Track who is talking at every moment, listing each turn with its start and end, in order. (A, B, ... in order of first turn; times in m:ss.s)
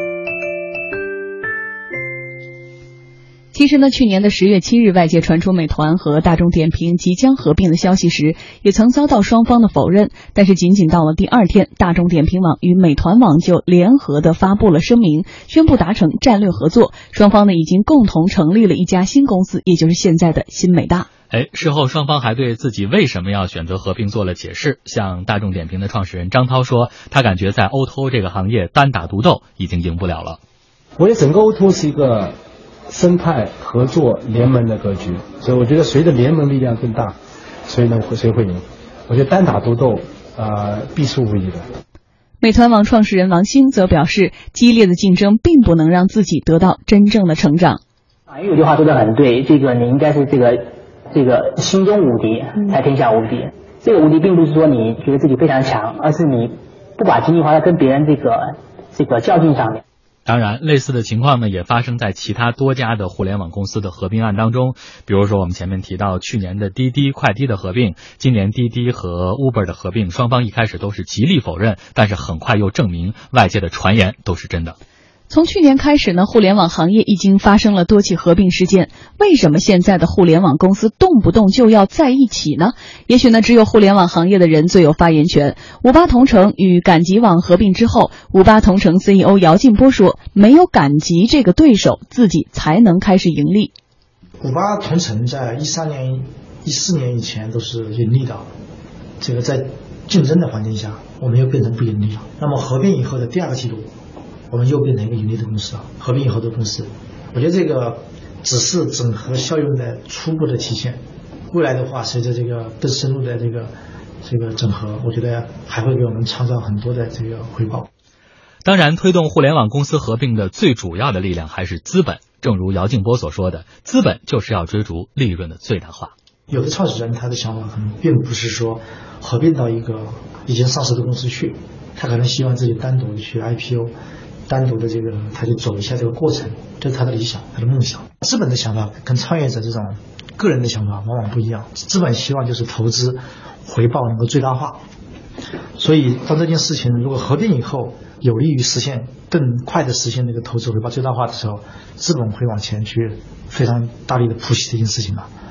0:03.5-0:21.1 A
0:21.3-0:30.4 B
0:31.0-0:32.4 C
0:32.9-0:37.2 C
0:37.7-0:41.6 C
0:42.4-0:47.8 A
0:48.3-0:50.6 D
0:51.1-0:58.4 D
0:59.0-0:59.8 D
1:00.3-1:14.8 B
1:15.3-1:33.7 A
1:34.4-1:38.4 E
1:39.2-1:43.9 E
1:44.5-1:51.0 E
1:51.5-1:53.7 E
1:54.2-1:57.9 E
1:58.6-2:06.1 B
2:06.5-2:13.9 E
2:14.5-2:24.8 E
2:25.8-2:35.3 E